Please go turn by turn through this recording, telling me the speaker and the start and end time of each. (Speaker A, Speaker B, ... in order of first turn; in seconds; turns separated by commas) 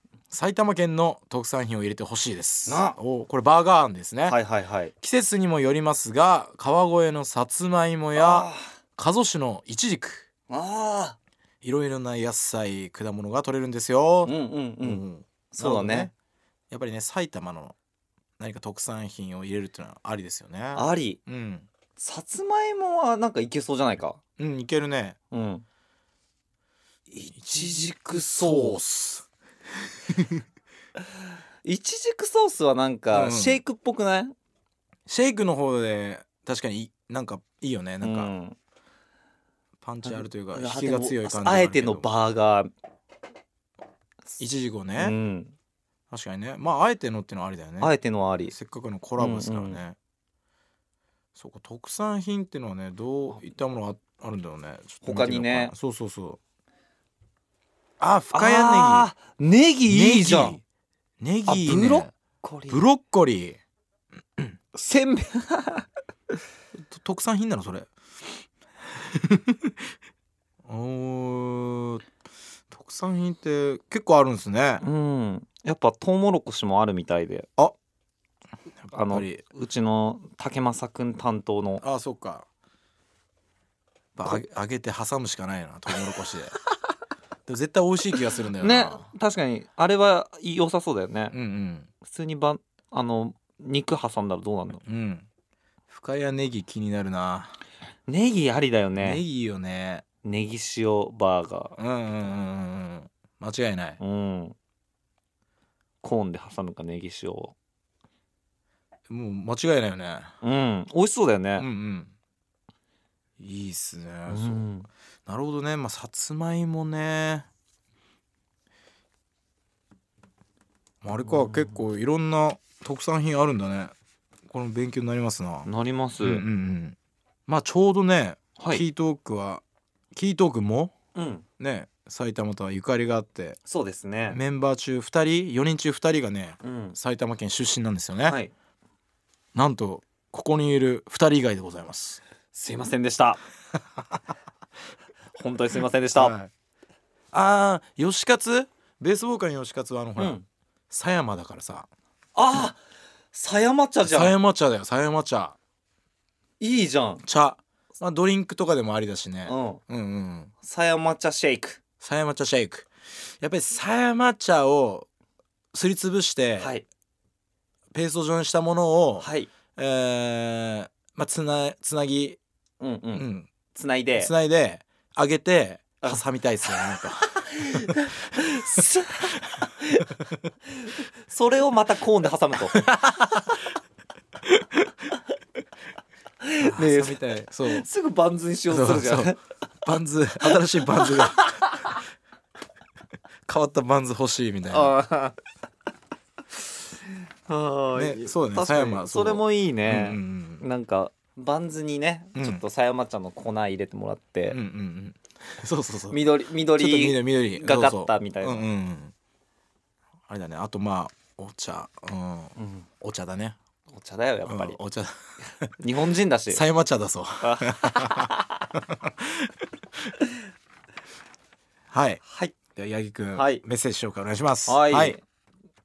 Speaker A: 0.3-4.3, Speaker B: 2.6-3.0, Speaker B: 4.2-4.9, Speaker A: 5.0-10.3, Speaker B: 8.1-8.7, Speaker B: 10.5-11.2, Speaker A: 11.6-16.1, Speaker B: 14.2-16.1, Speaker A: 16.7-17.8, Speaker A: 18.4-21.7, Speaker B: 20.8-21.2, Speaker B: 22.0-24.2, Speaker A: 24.4-25.2, Speaker B: 25.3-25.6, Speaker B: 27.1-28.8, Speaker A: 27.3-29.3, Speaker A: 30.1-30.4, Speaker B: 31.6-34.3, Speaker A: 33.1-33.6, Speaker A: 35.1-38.3, Speaker B: 38.0-38.5, Speaker A: 39.8-42.1, Speaker B: 40.0-42.7, Speaker A: 44.4-45.1, Speaker B: 45.0-45.5, Speaker A: 46.1-48.0, Speaker B: 47.8-48.5, Speaker A: 48.5-50.0, Speaker B: 49.2-49.8, Speaker A: 51.3-56.4, Speaker B: 55.0-55.7, Speaker A: 58.0-59.1, Speaker B: 58.3-60.6, Speaker A: 59.9-60.6, Speaker A: 61.2-62.1, Speaker B: 61.5-62.8, Speaker A: 62.7-63.6, Speaker B: 64.7-65.8, Speaker A: 66.8-67.9, Speaker A: 69.1-69.7, Speaker A: 70.7-72.0, Speaker A: 72.7-74.8, Speaker B: 74.8-77.5, Speaker A: 78.9-79.4, Speaker B: 78.9-81.8, Speaker A: 81.8-82.5, Speaker A: 84.2-86.5, Speaker A: 87.5-89.1, Speaker B: 88.6-91.3, Speaker A: 91.3-91.9, Speaker B: 92.0-94.8, Speaker A: 94.8-95.3, Speaker A: 95.9-97.5, Speaker B: 98.1-99.2, Speaker A: 99.0-100.0, Speaker B: 100.2-101.8, Speaker A: 101.8-104.0, Speaker B: 104.0-104.5, Speaker B: 106.0-107.5, Speaker A: 109.1-110.3, Speaker B: 110.4-111.7, Speaker A: 111.6-112.1, Speaker A: 113.4-114.7, Speaker B: 114.3-114.9, Speaker A: 115.3-117.5, Speaker A: 121.0-123.9, Speaker B: 121.2-121.8, Speaker A: 124.5-125.7, Speaker B: 125.6-126.4, Speaker A: 126.2-130.9, Speaker B: 128.6-128.8, Speaker B: 131.1-131.4, Speaker A: 131.6-133.6, Speaker B: 133.6-134.4, Speaker A: 134.3-138.4, Speaker B: 136.6-136.9, Speaker B: 138.3-138.5, Speaker A: 139.5-142.2, Speaker B: 142.5-143.4, Speaker B: 145.3-146.3, Speaker A: 146.1-146.5, Speaker A: 147.3-150.4, Speaker B: 150.2-150.4, Speaker A: 150.9-151.9, Speaker B: 152.3-152.8, Speaker B: 153.3-154.4, Speaker A: 154.0-155.6, Speaker B: 156.6-157.2, Speaker A: 157.2-160.5, Speaker B: 159.4-159.8, Speaker B: 160.6-161.8, Speaker A: 162.0-165.1, Speaker A: 165.7-166.7, Speaker B: 166.6-166.8, Speaker A: 167.9-172.4, Speaker B: 169.2-169.5, Speaker B: 172.8-174.3, Speaker A: 173.2-173.5, Speaker A: 174.2-177.9, Speaker B: 177.3-180.1, Speaker B: 181.3-182.8, Speaker A: 182.7-183.4, Speaker B: 186.4-189.4, Speaker A: 186.6-187.8, Speaker A: 188.7-189.3, Speaker A: 189.8-191.5, Speaker B: 190.5-192.0, Speaker A: 193.5-194.9, Speaker B: 194.7-195.3, Speaker B: 197.5-204.6, Speaker A: 197.9-200.7, Speaker A: 202.3-202.6, Speaker A: 204.5-209.1, Speaker B: 206.1-208.6, Speaker A: 210.3-213.6, Speaker B: 212.6-212.8, Speaker B: 213.9-214.8, Speaker A: 214.5-215.7, Speaker B: 215.8-216.6, Speaker A: 216.5-219.5, Speaker B: 217.4-218.5, Speaker A: 221.9-222.2, Speaker B: 222.2-222.5, Speaker A: 222.8-225.2, Speaker B: 223.3-223.6, Speaker B: 224.7-225.2